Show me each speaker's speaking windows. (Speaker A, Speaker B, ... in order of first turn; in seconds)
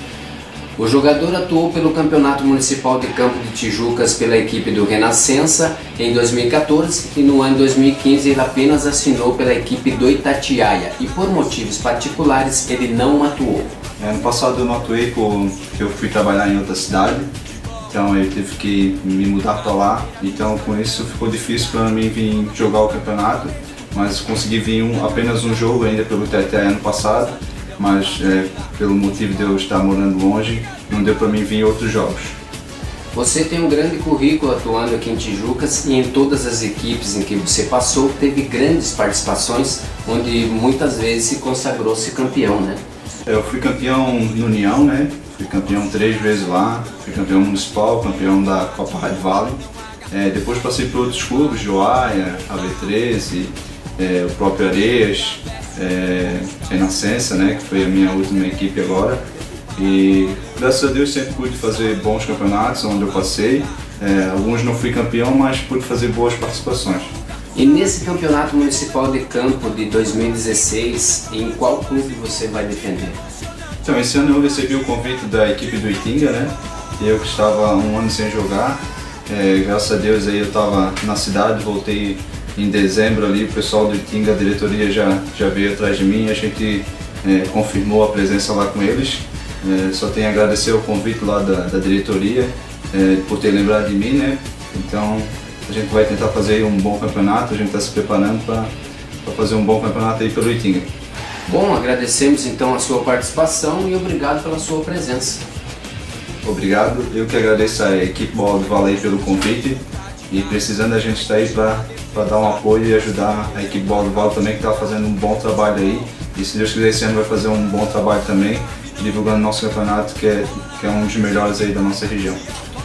Speaker A: 0.8-13.7, 33.1-42.8, 67.5-73.2, 101.5-105.4
Speaker B: 14.0-17.3, 17.9-32.4, 43.3-49.6, 50.1-59.2, 59.8-67.1, 73.8-98.7, 99.2-100.9, 106.4-109.8, 110.3-122.4